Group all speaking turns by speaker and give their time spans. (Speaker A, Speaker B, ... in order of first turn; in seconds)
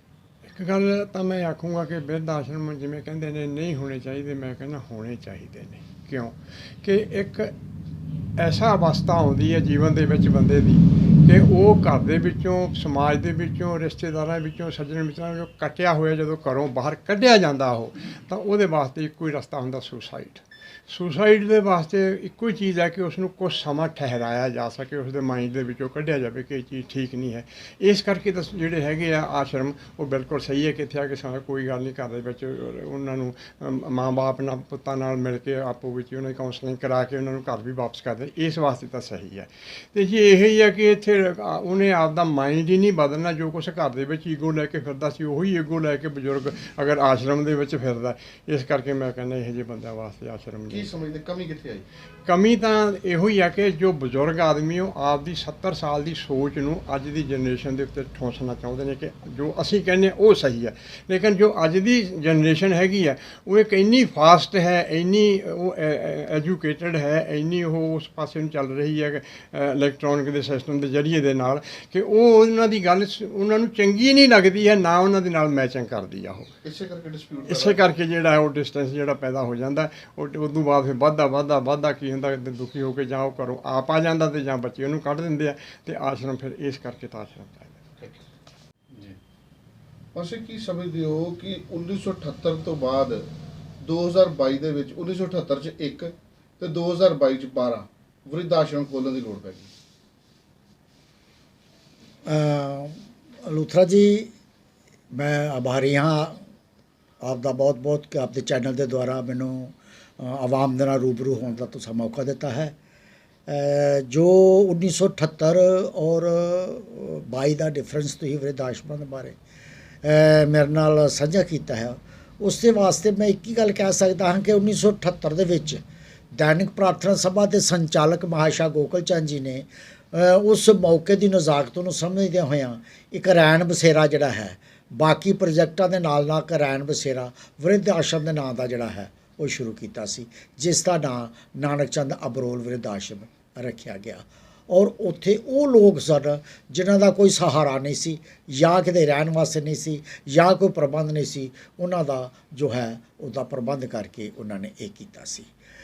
Speaker A: 0.4-7.5, 8.4-50.9, 52.2-76.5, 77.5-87.8
Speaker B: 50.7-51.8, 76.6-77.8, 88.9-89.2, 90.1-93.3, 93.8-99.7
Speaker C: 102.2-104.3, 105.1-106.4, 107.2-112.7, 113.5-119.3, 120.0-125.8, 126.3-155.5